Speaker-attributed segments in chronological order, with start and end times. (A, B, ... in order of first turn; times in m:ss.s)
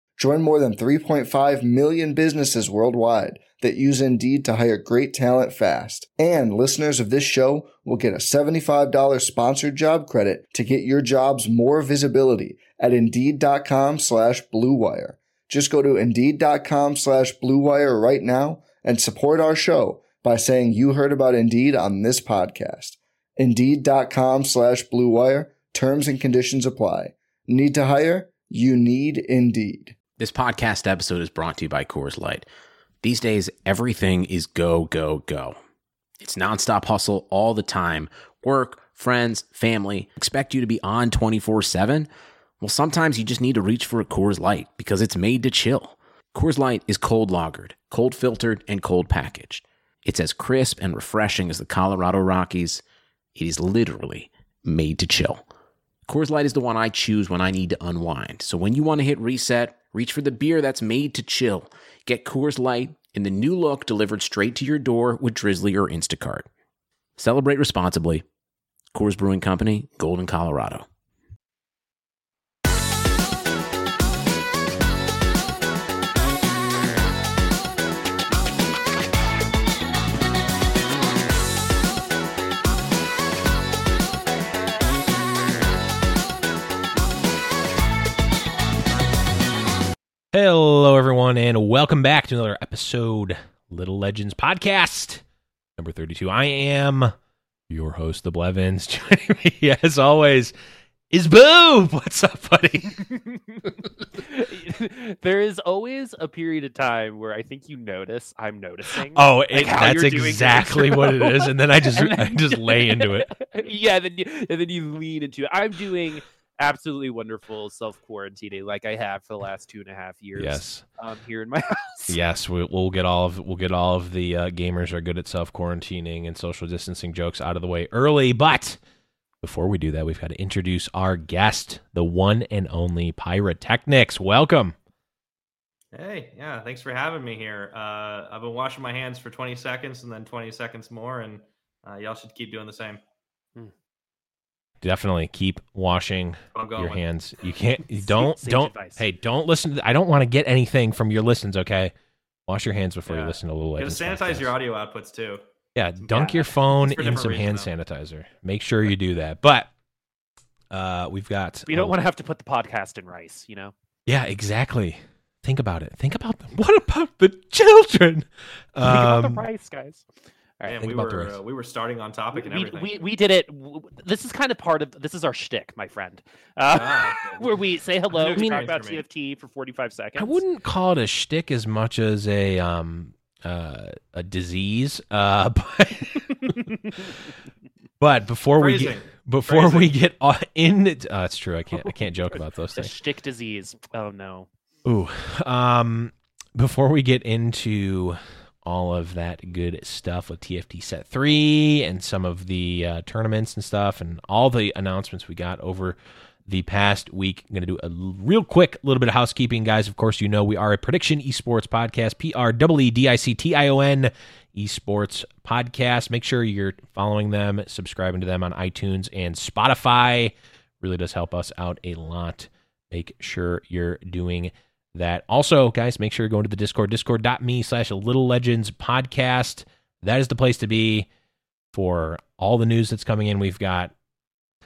0:00.2-0:29.9 A
0:30.2-0:32.5 B
0:33.0-0:35.6 B
0:36.2-0:42.1 B
0:42.6-0:52.8 B
0:53.3-0:55.4 B
0:56.1-1:06.5 B
1:07.2-1:08.2 B
1:08.9-1:10.8 B
1:30.3-1:35.2 C
1:35.8-1:37.1 C
1:37.7-1:40.5 C
1:41.1-1:43.1 C
1:44.2-2:02.2 D
1:49.0-1:53.3 C
2:00.3-2:00.8 C
2:02.1-2:08.8 C
2:09.4-2:14.7 C
2:15.9-2:23.0 E
2:24.8-2:31.9 C
2:26.5-2:27.0 E
2:27.9-2:29.0 D
2:32.5-2:34.5 C
2:33.1-2:35.4 E
2:35.7-2:39.7 C
2:36.1-2:36.4 D
2:36.6-2:37.7 E
2:40.7-2:41.9 C
2:41.7-2:43.7 D
2:44.0-2:49.4 C
2:48.8-2:50.0 D
2:50.7-2:52.9 E
2:50.8-2:51.4 C
2:52.3-3:00.4 D
2:56.7-2:57.5 E
2:58.1-2:59.0 E
2:58.3-2:58.6 C
3:00.2-3:07.1 C
3:08.0-3:12.9 C
3:08.6-3:09.9 E
3:12.3-3:14.5 D
3:14.8-3:51.1 C
3:51.7-3:53.9 C